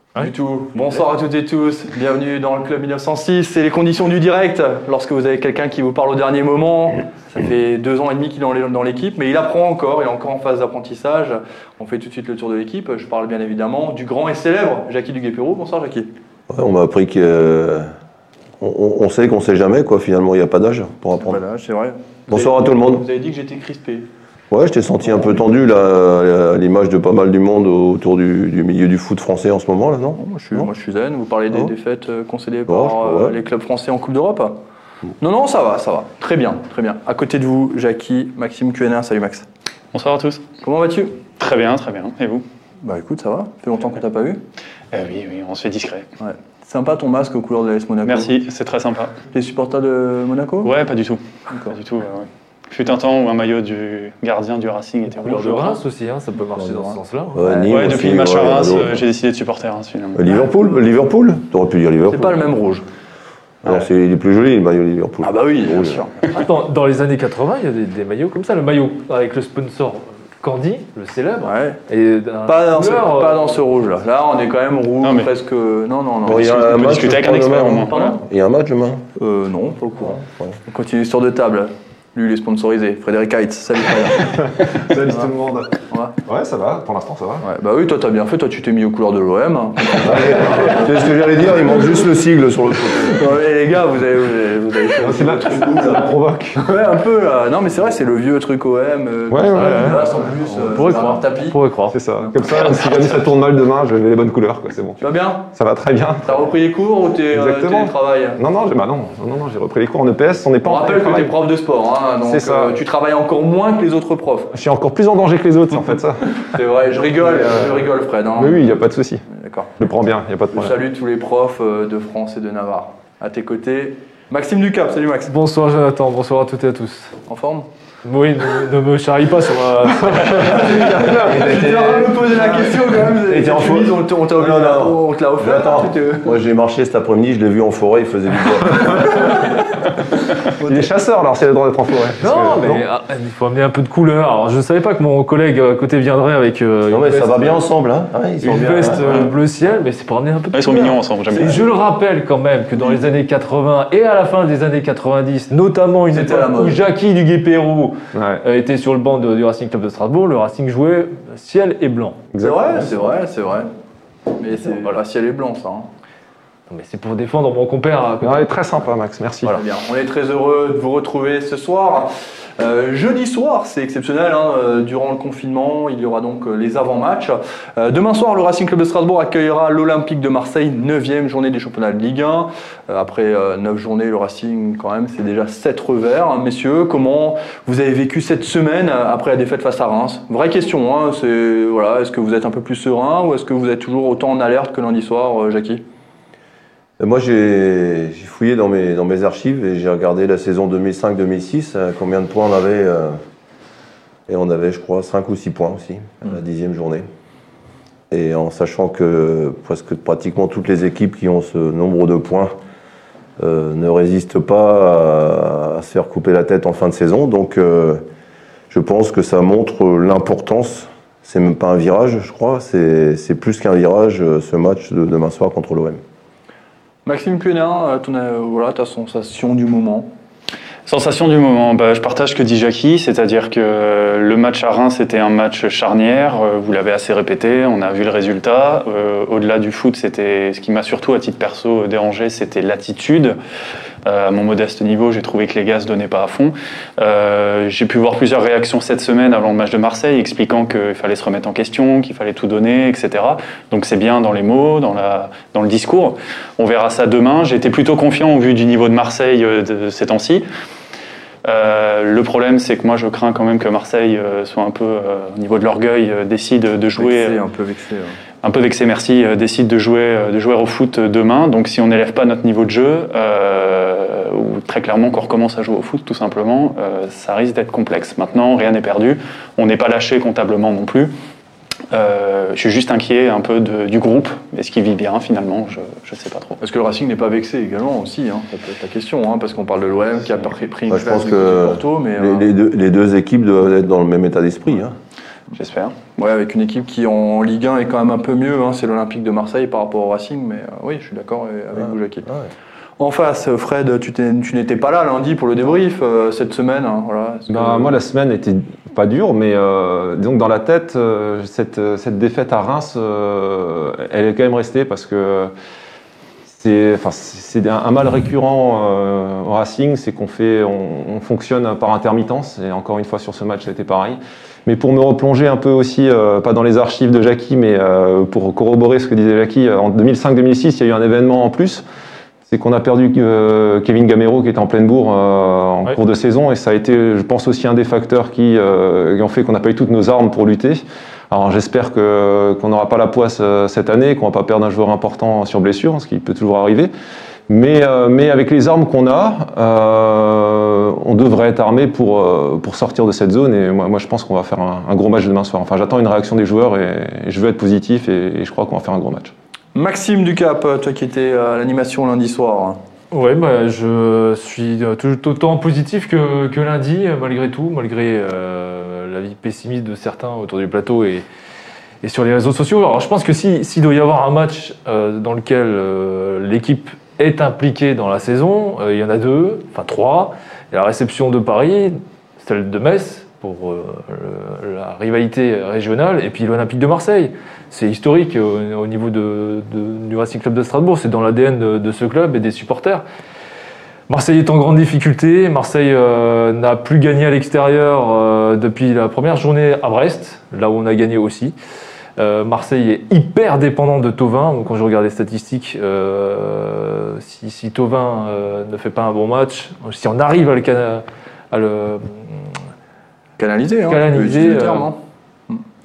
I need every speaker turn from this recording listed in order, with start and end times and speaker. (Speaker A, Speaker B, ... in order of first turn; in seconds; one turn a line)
Speaker A: 0.2-16.1
Speaker B: 16.5-17.9
Speaker B: 18.6-21.4
Speaker A: 21.2-24.1
Speaker B: 22.3-23.1
Speaker B: 24.5-30.7
Speaker A: 30.2-34.6
Speaker B: 32.7-33.3
Speaker A: 35.2-39.5
Speaker C: 39.9-40.5
Speaker A: 40.6-41.2
Speaker C: 41.4-42.5
Speaker A: 42.8-44.4
Speaker C: 44.9-46.1
Speaker A: 46.2-48.4
Speaker C: 48.0-49.2
Speaker A: 49.3-50.8
Speaker C: 50.6-55.8
Speaker D: 55.2-57.4
Speaker A: 56.6-57.9
Speaker B: 57.4-59.0
Speaker C: 57.7-60.4
Speaker B: 60.1-62.5
Speaker A: 62.1-62.9
Speaker B: 63.6-66.1
Speaker A: 65.2-66.2
Speaker D: 66.3-73.4
Speaker A: 71.5-71.8
Speaker A: 72.5-76.9
Speaker C: 75.0-75.3
Speaker B: 76.2-79.0
Speaker C: 76.3-78.0
Speaker A: 77.9-78.2
Speaker A: 79.2-85.3
Speaker E: 84.4-87.4
Speaker A: 85.9-86.2
Speaker A: 87.4-92.0
Speaker B: 90.1-93.3
Speaker A: 93.0-101.6
Speaker E: 95.0-96.7
Speaker E: 99.3-100.1
Speaker D: 99.6-102.0
Speaker E: 101.9-105.0
Speaker A: 105.0-105.5
Speaker E: 105.5-106.5
Speaker A: 106.2-108.4
Speaker E: 107.3-111.3
Speaker A: 110.6-114.5
Speaker E: 112.2-112.8
Speaker E: 114.5-116.4
Speaker A: 116.4-118.6
Speaker E: 117.3-117.8
Speaker E: 118.4-119.2
Speaker A: 119.3-119.7
Speaker E: 119.8-120.7
Speaker A: 120.5-125.3
Speaker D: 125.3-127.2
Speaker A: 127.3-127.7
Speaker D: 128.1-131.0
Speaker A: 130.3-136.3
Speaker B: 131.0-139.4
Speaker E: 140.6-142.8
Speaker D: 142.2-147.6
Speaker B: 146.9-149.0
Speaker D: 148.4-162.3
Speaker C: 150.5-151.6
Speaker A: 156.1-156.8
Speaker E: 158.1-158.4
Speaker E: 162.3-163.1
Speaker A: 162.4-163.7
Speaker A: 164.3-165.9
Speaker D: 164.6-165.0
Speaker D: 166.7-168.8
Speaker E: 168.2-169.6
Speaker A: 169.5-195.8
Speaker B: 197.0-203.2
Speaker B: 204.3-207.1
Speaker B: 208.1-212.5
Speaker B: 213.4-218.0
Speaker B: 218.7-226.0
Speaker A: 227.1-230.1
Speaker C: 230.9-243.4
Speaker C: 244.1-260.4
Speaker C: 261.4-267.4
Speaker A: 267.0-268.2
Speaker C: 268.4-281.1
Speaker C: 281.9-286.6
Speaker A: 286.6-292.5
Speaker B: 290.9-294.9
Speaker C: 295.5-296.0
Speaker A: 296.1-302.3
Speaker A: 303.0-307.9
Speaker E: 307.5-315.5
Speaker E: 316.5-331.8
Speaker E: 332.5-346.9
Speaker E: 347.5-359.3
Speaker A: 359.8-362.8
Speaker D: 363.1-371.2
Speaker D: 372.0-393.0
Speaker D: 394.1-401.6
Speaker D: 402.2-412.3
Speaker A: 413.4-415.0
Speaker D: 413.9-414.9